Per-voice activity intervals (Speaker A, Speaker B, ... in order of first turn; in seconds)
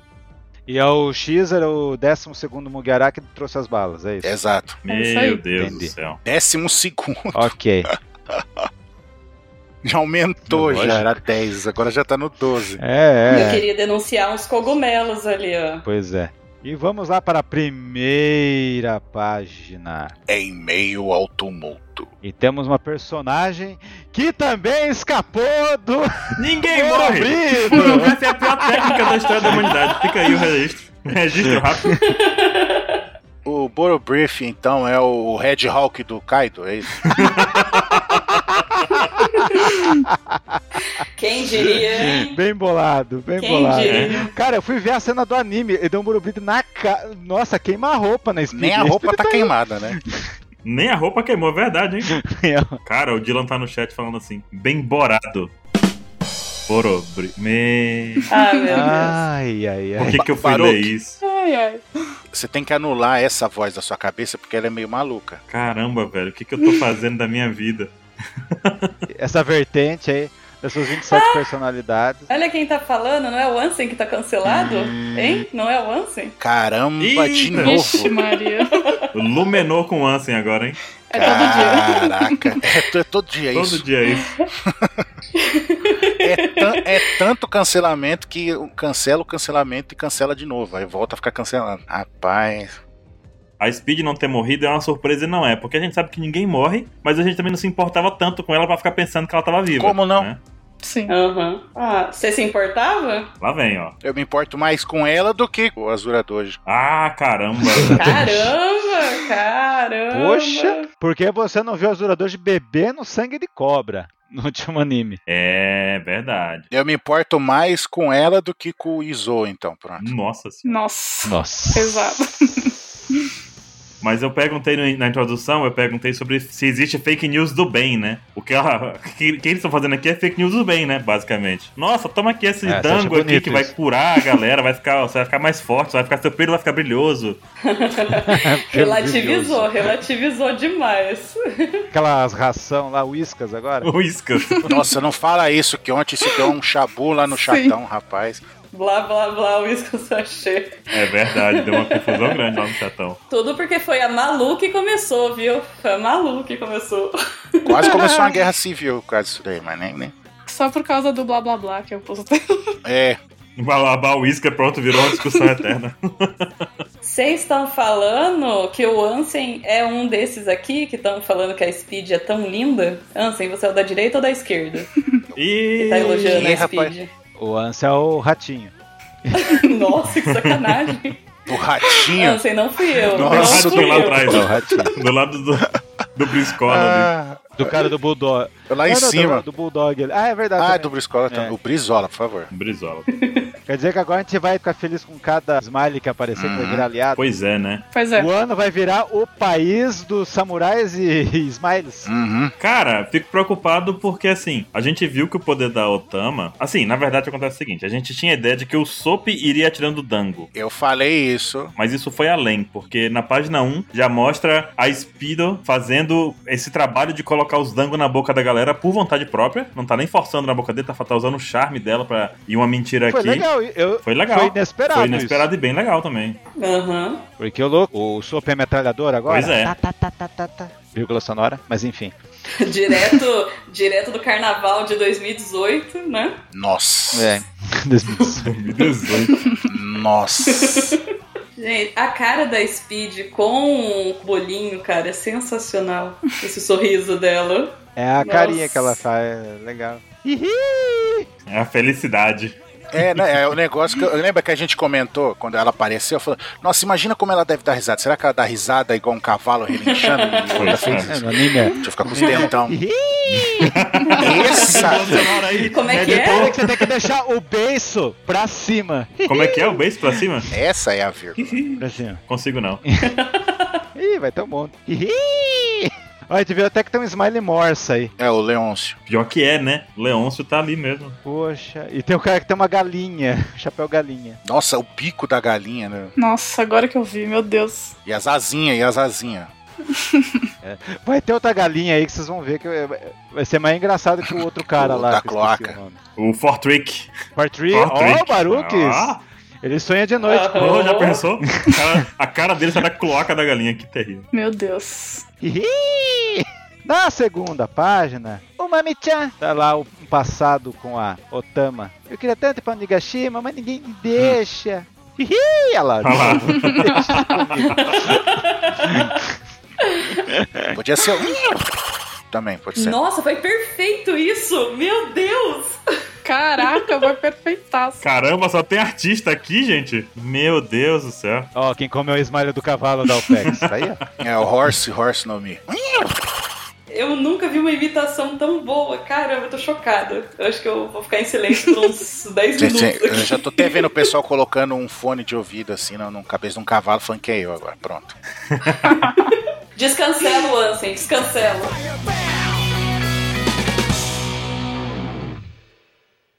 Speaker A: 0.7-4.3, 5.5-5.9, 7.3-7.9, 10.5-11.2, 12.8-13.6, 15.8-20.1, 22.2-28.9, 38.9-40.6, 42.0-50.3, 52.1-52.8, 58.7-60.2, 69.1-72.3, 107.7-108.5, 110.1-115.2, 121.2-122.1, 132.6-133.7, 138.1-139.9, 141.9-143.9, 177.4-178.7, 179.2-179.5, 184.2-184.9, 187.6-191.6, 193.7-197.2, 198.1-202.1, 223.1-225.5, 227.4-232.1, 237.1-238.5, 247.9-251.3, 261.1-263.8, 265.9-269.8, 271.8-272.2, 273.9-278.1, 281.2-284.4, 290.6-296.0, 297.4-300.8, 301.6-301.9, 305.4-318.2, 318.8-319.2, 320.2-320.7, 331.5-334.0
Speaker B: 4.2-4.8, 6.2-7.5, 8.3-8.6, 9.8-12.8, 20.3-22.1, 33.4-37.2, 48.5-50.0, 60.1-60.9, 62.3-65.4, 76.4-78.1, 81.2-83.8, 84.7-85.0, 86.2-92.8, 99.7-100.3, 104.0-106.6, 116.7-120.1, 144.6-148.4, 157.6-160.1, 162.8-163.2, 176.1-176.9, 181.5-182.4, 183.1-184.5, 186.6-187.7, 188.7-189.4, 190.6-192.5, 196.3-196.8, 202.0-202.5, 210.5-211.7, 236.5-237.4, 239.7-240.9, 252.9-262.8, 264.1-265.2, 270.5-271.6, 278.2-279.0, 284.4-286.1, 288.0-289.5, 294.8-295.8, 320.7-321.7, 322.3-323.0, 334.2-336.3, 342.6-348.1
Speaker C: 4.8-6.2, 26.4-32.0, 37.0-38.3, 43.8-44.1, 50.6-52.2, 52.8-55.5, 56.7-58.3, 60.0-61.2, 65.5-67.9, 68.4-68.9, 77.0-78.0, 79.1-80.8, 83.5-84.3, 93.6-100.4, 103.4-104.0, 106.7-108.2, 115.3-116.7, 120.0-120.8, 124.0-137.4, 143.8-144.7, 150.9-153.2, 163.6-166.5, 175.3-176.6, 180.2-180.9, 183.2-187.1, 192.5-193.1, 197.2-197.8, 202.6-210.5, 211.8-223.5, 224.0-226.4, 229.3-229.7, 238.4-239.3, 251.5-253.2, 260.6-261.2, 263.3-266.9, 269.3-270.5, 271.4-272.8, 279.1-281.2, 296.2-297.1, 297.7-299.2, 300.5-304.3, 316.0-317.8, 328.0-331.5, 333.4-333.7, 348.5-348.8
Speaker D: 4.9-5.4, 27.7-28.1, 58.5-59.0, 61.2-61.9, 77.6-78.9, 81.1-82.6, 100.8-101.1, 120.6-123.3, 144.5-144.8, 147.3-147.8, 157.9-158.3, 160.4-162.8, 165.0-165.6, 197.9-198.3, 286.2-287.9, 289.9-290.2, 304.3-305.2, 326.2-328.0, 348.8-349.2
Speaker E: 13.3-15.8, 32.0-33.0, 39.4-39.8, 41.1-42.4, 43.4-44.3, 58.3-59.2, 71.0-71.5, 72.3-76.3, 78.7-79.0, 81.2-81.5, 85.3-87.2, 101.1-103.3, 107.9-110.9, 137.6-141.8, 148.7-150.8, 151.4-152.4, 153.3-158.1, 167.0-174.9, 175.8-177.1, 179.3-181.2, 181.8-184.4, 193.1-193.5, 226.6-227.2, 232.6-236.4, 240.5-241.0, 241.6-249.0, 259.9-261.0, 262.2-262.5, 264.1-266.5, 273.0-273.8, 300.2-301.2, 317.6-319.0, 319.9-320.2, 322.8-325.8, 336.9-343.8, 348.9-349.2, 349.8-351.8